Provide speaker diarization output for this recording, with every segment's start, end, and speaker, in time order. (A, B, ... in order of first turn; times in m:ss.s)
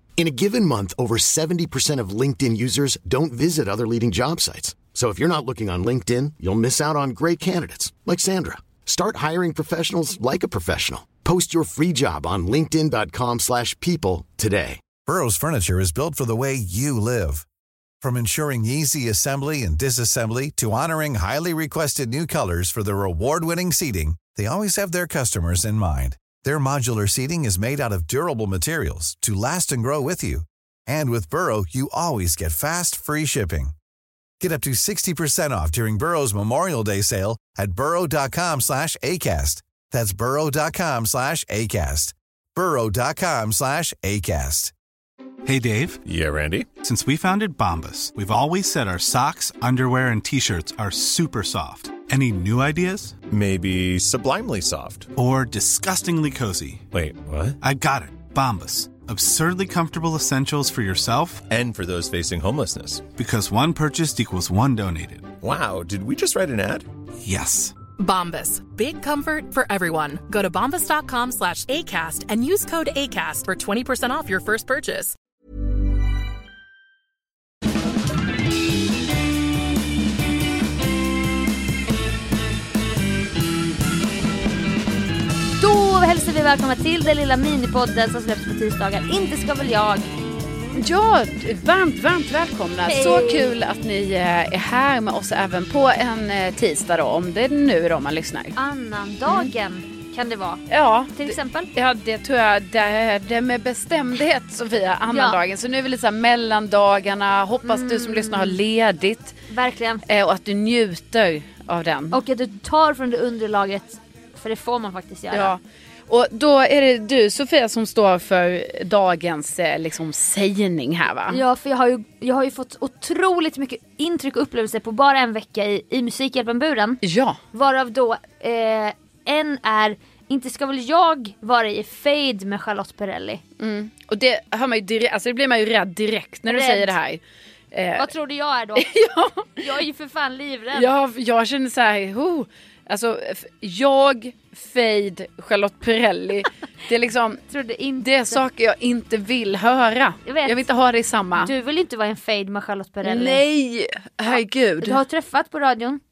0:00.2-0:14.8 A
0:15.1-0:17.4 B
0:18.0-0:33.7 B
0:34.4-0:44.7 B
0:45.4-0:46.0 C
0:46.0-0:46.7 D
0:46.8-0:53.2 C
0:53.3-0:55.1 D
0:55.2-0:56.9 C
0:56.9-0:57.6 D
0:57.6-1:01.5 C
1:01.5-1:03.1 D
1:03.1-1:05.3 C
1:05.4-1:06.9 D
1:07.2-1:07.8 C
1:08.0-1:15.2 E
1:25.6-1:30.1 F
1:30.8-1:38.6 G
1:32.9-1:33.6 F
1:38.6-1:41.7 F
1:40.7-1:49.4 G
1:45.1-1:45.4 F
1:47.6-1:48.6 F
1:49.5-1:50.0 F
1:50.1-1:52.2 G
1:52.1-1:55.5 F
1:55.3-2:01.4 G
2:01.3-2:07.0 F
2:07.0-2:07.4 G
2:07.5-2:13.4 F
2:13.6-2:18.1 G
2:16.5-2:17.0 F
2:18.0-2:18.9 F
2:18.8-2:19.6 G
2:19.6-2:20.9 F
2:20.7-2:27.4 G
2:27.5-2:28.4 F
2:28.0-2:31.5 G
2:30.3-2:30.6 F
2:31.4-2:33.4 F
2:33.0-2:35.0 G
2:34.3-2:36.0 F